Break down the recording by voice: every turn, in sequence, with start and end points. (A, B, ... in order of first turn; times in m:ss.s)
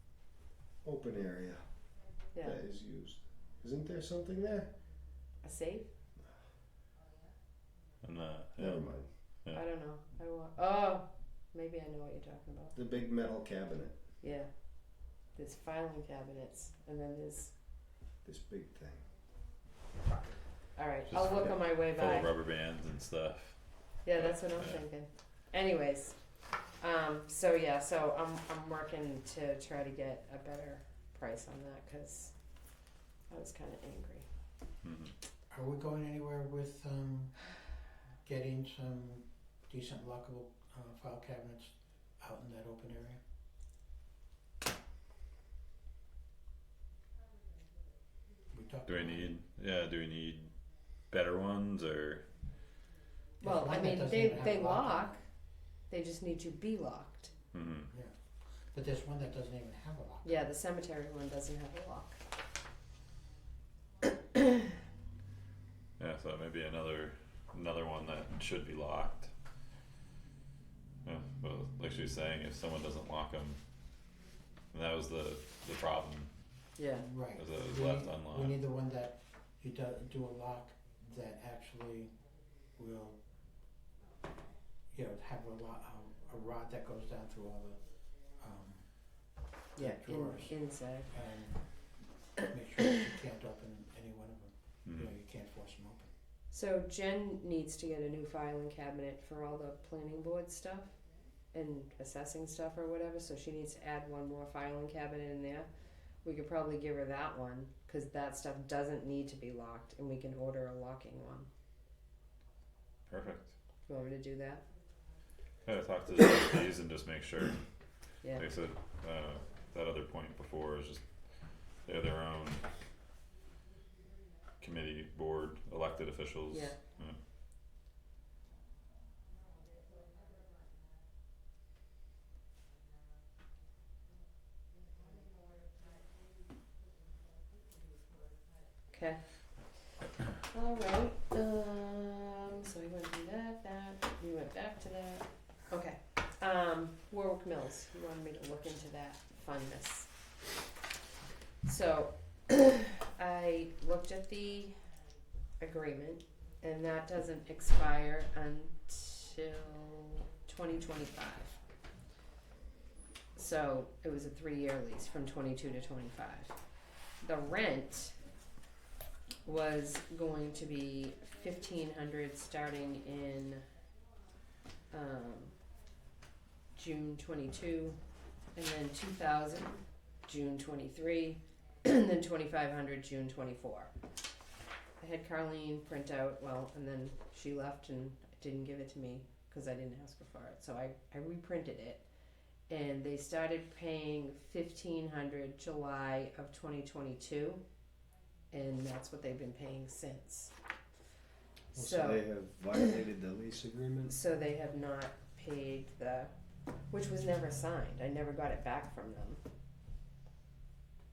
0:00.8-0:01.7 A
0:02.4-0:04.7 A
0:05.4-0:05.9 B
0:08.0-0:08.9 C
0:08.6-0:09.1 A
0:09.5-0:12.7 B
0:12.8-0:14.0 A
0:14.2-0:14.5 B
0:15.4-0:17.5 B
0:18.2-0:19.1 A
0:20.8-0:22.3 B
0:21.1-0:23.6 C
0:24.0-0:26.2 B
0:24.1-0:24.8 C
0:26.8-0:32.3 B
0:33.3-0:34.3 B
0:34.8-0:35.1 C
0:35.5-0:37.4 D
0:38.2-0:43.2 D
0:48.5-0:49.2 D
0:48.9-0:50.5 C
0:51.1-0:52.2 C
0:53.4-0:55.2 D
0:53.4-0:55.2 B
0:55.9-0:57.3 B
0:57.5-0:57.9 C
0:58.7-1:00.3 D
1:00.2-1:02.2 B
1:06.0-1:09.3 C
1:11.0-1:13.6 C
1:14.7-1:16.3 C
1:16.8-1:17.1 B
1:17.0-1:22.1 D
1:17.4-1:18.6 C
1:22.8-1:23.2 D
1:24.9-1:27.8 D
1:28.4-1:29.0 D
1:29.8-1:31.1 B
1:29.8-1:30.6 D
1:31.1-1:36.1 D
1:34.9-1:35.1 C
1:36.5-1:40.9 B
1:41.5-1:45.7 B
1:46.2-1:51.5 B
1:53.1-1:53.5 C
1:53.9-1:54.6 B
1:55.6-1:57.6 C
1:58.4-2:01.0 C
2:01.9-2:02.6 C
2:04.6-2:07.2 C
2:06.5-2:06.8 B
2:18.9-2:19.2 B
2:20.4-2:30.1 B
2:31.6-2:34.8 B
2:35.6-2:41.6 B
2:43.4-2:46.5 B
2:47.2-2:48.2 B
2:49.4-2:53.6 B
2:54.9-2:55.5 B
2:56.8-2:58.0 B
2:58.6-3:03.9 B
3:05.0-3:12.0 B
3:12.7-3:17.6 B
3:18.5-3:20.5 B
3:21.7-3:22.2 B
3:21.8-3:24.2 A
3:24.1-3:26.3 B
3:26.9-3:29.4 B